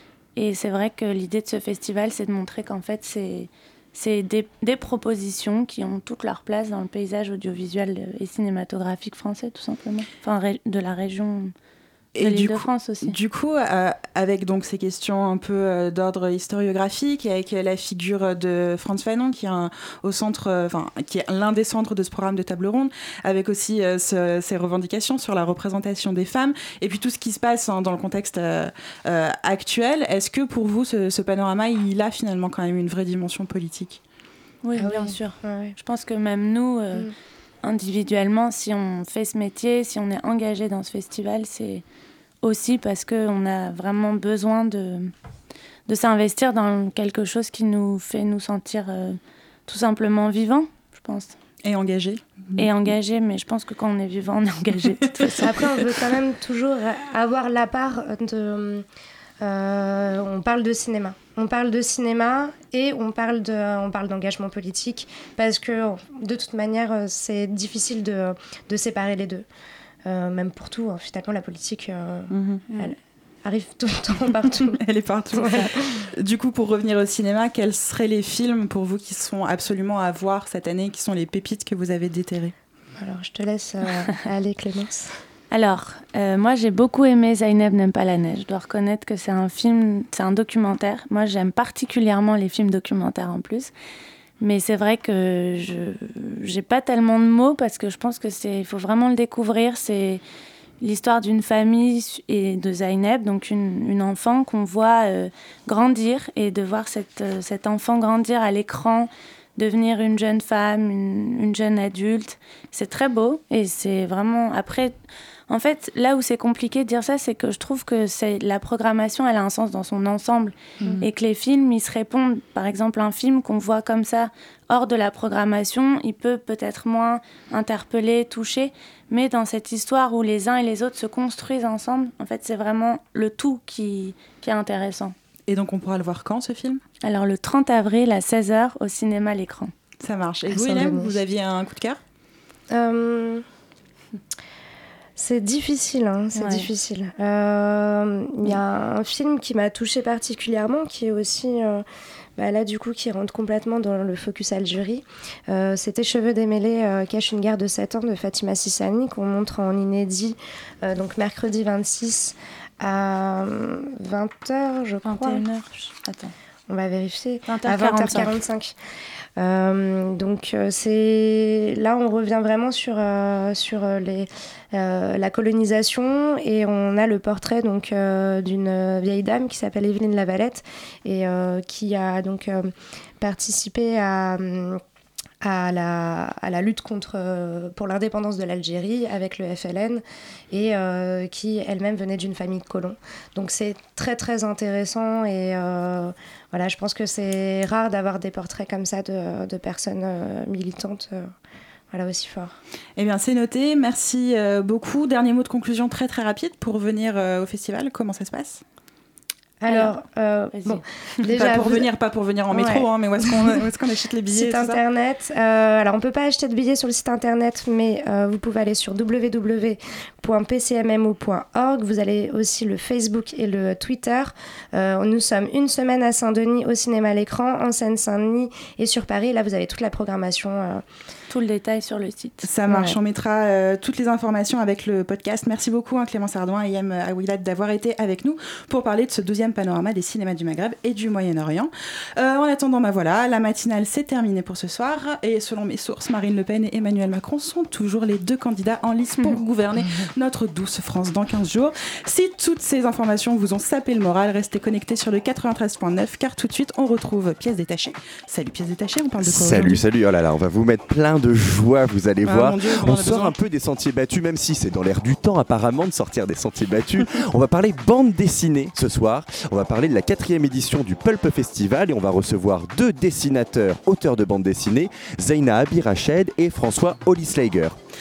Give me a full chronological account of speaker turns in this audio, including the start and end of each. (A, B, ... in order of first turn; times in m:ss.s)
0:00.4-0:11.5 A
0:12.1-0:34.0 B
0:12.2-0:13.2 A
0:34.6-0:37.1 A
0:34.8-0:35.7 C
0:37.6-0:41.8 A
0:42.4-0:45.1 A
0:45.9-0:51.3 A
0:51.6-0:52.9 B
0:52.6-0:55.8 A
0:54.8-0:55.4 B
0:55.4-0:58.8 C
0:59.4-1:09.4 C
1:10.0-1:14.8 C
1:12.3-1:12.7 B
1:14.6-1:22.5 B
1:15.4-1:15.7 C
1:23.0-1:25.1 C
1:25.5-1:33.7 A
1:34.4-1:40.2 A
1:40.8-1:54.9 A
1:55.5-2:15.1 A
2:15.5-2:16.8 B
2:17.0-2:19.7 A
2:20.0-2:22.0 B
2:20.5-2:21.1 C
2:22.7-2:23.4 C
2:25.2-2:31.8 C
2:26.3-2:26.7 A
2:32.4-2:45.4 C
2:45.0-2:46.3 A
2:46.7-2:48.7 C
2:47.4-2:48.4 A
2:49.4-3:04.8 C
3:05.4-3:21.3 C
3:21.9-3:22.6 C
3:23.0-3:28.6 B
3:29.6-3:31.9 C
3:30.5-3:30.8 A
3:31.3-3:34.8 B
3:32.5-3:33.5 C
3:34.3-3:50.8 C
3:51.3-3:52.5 A
3:52.4-4:19.8 B
3:52.7-3:52.9 C
4:19.2-4:37.8 D
4:22.2-4:23.3 B